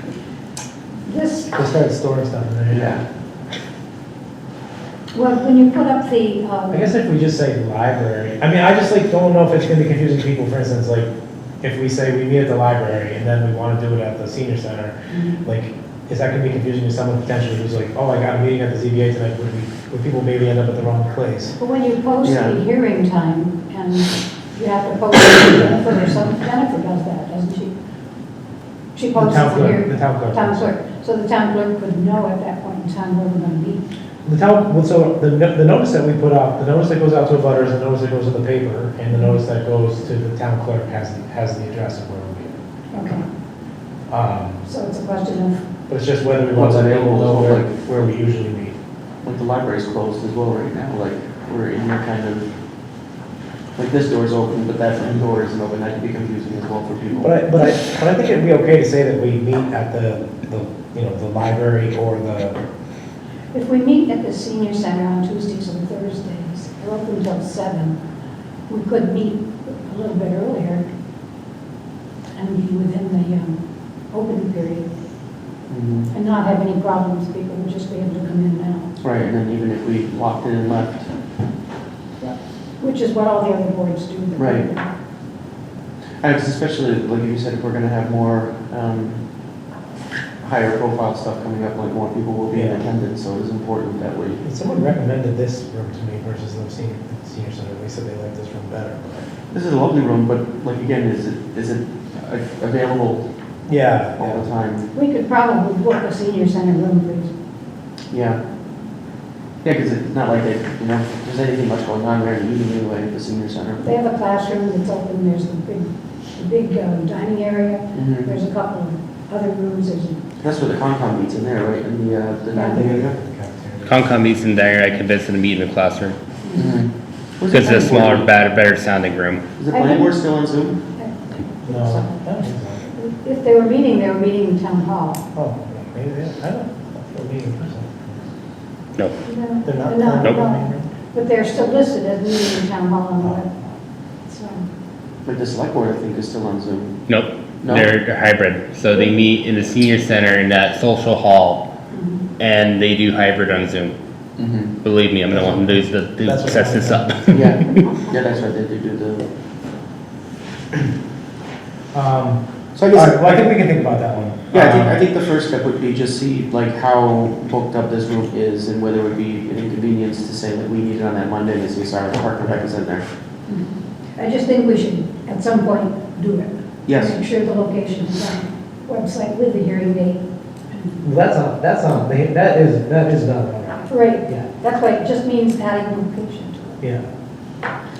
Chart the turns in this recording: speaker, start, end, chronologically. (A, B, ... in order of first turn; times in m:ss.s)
0:01.0-0:01.5 A
0:01.5-0:02.9 B
0:02.7-0:03.0 C
0:05.1-0:06.9 A
0:06.7-0:11.1 B
0:11.6-0:21.6 B
0:15.1-0:15.4 A
0:21.6-0:27.7 A
0:22.2-0:22.6 C
0:28.9-0:33.8 A
0:29.1-0:30.7 B
0:34.2-0:42.6 B
0:42.9-0:43.2 A
0:44.1-0:44.6 B
0:44.6-0:45.6 A
0:45.9-0:48.8 B
0:46.5-0:47.7 C
0:49.2-0:52.5 C
0:53.8-0:57.3 C
0:57.2-1:02.6 B
1:03.5-1:08.0 A
1:08.7-1:10.8 A
1:12.3-1:14.8 A
1:15.7-1:16.1 C
1:16.1-1:18.9 A
1:19.0-1:21.1 C
1:22.2-1:24.9 A
1:24.4-1:24.6 C
1:26.2-1:29.2 C
1:30.4-1:34.4 C
1:32.5-1:32.8 B
1:34.4-1:39.3 B
1:39.5-1:43.2 C
1:43.7-1:44.4 B
1:44.2-1:44.9 C
1:44.9-1:47.3 A
1:48.1-1:48.4 C
1:49.6-1:53.8 C
1:53.8-2:00.2 A
1:57.9-1:58.3 C
2:00.4-2:03.2 C
2:02.5-2:02.8 A
2:02.6-2:04.2 B
2:03.8-2:06.2 D
2:06.4-2:06.8 A
2:06.5-2:08.3 C
2:07.5-2:09.4 D
2:09.6-2:10.8 C
2:09.7-2:10.2 A
2:11.0-2:12.2 A
2:11.6-2:12.9 B
2:12.9-2:15.2 A
2:15.3-2:18.2 B
2:19.2-2:23.5 A
2:19.6-2:20.9 B
2:23.2-2:23.6 B
2:24.2-2:24.6 A
2:25.2-2:27.0 C
2:27.1-2:31.6 D
2:27.6-2:27.9 C
2:31.9-2:32.2 A
2:32.4-2:33.9 D
2:34.4-2:34.7 C
2:34.8-2:37.9 D
2:35.3-2:37.6 B
2:37.3-2:39.2 C
2:41.9-2:45.0 B
2:42.7-2:43.5 C
2:44.5-2:53.0 C
2:53.5-3:01.0 A
2:56.8-2:57.2 C
3:01.0-3:04.5 B
3:03.9-3:06.8 A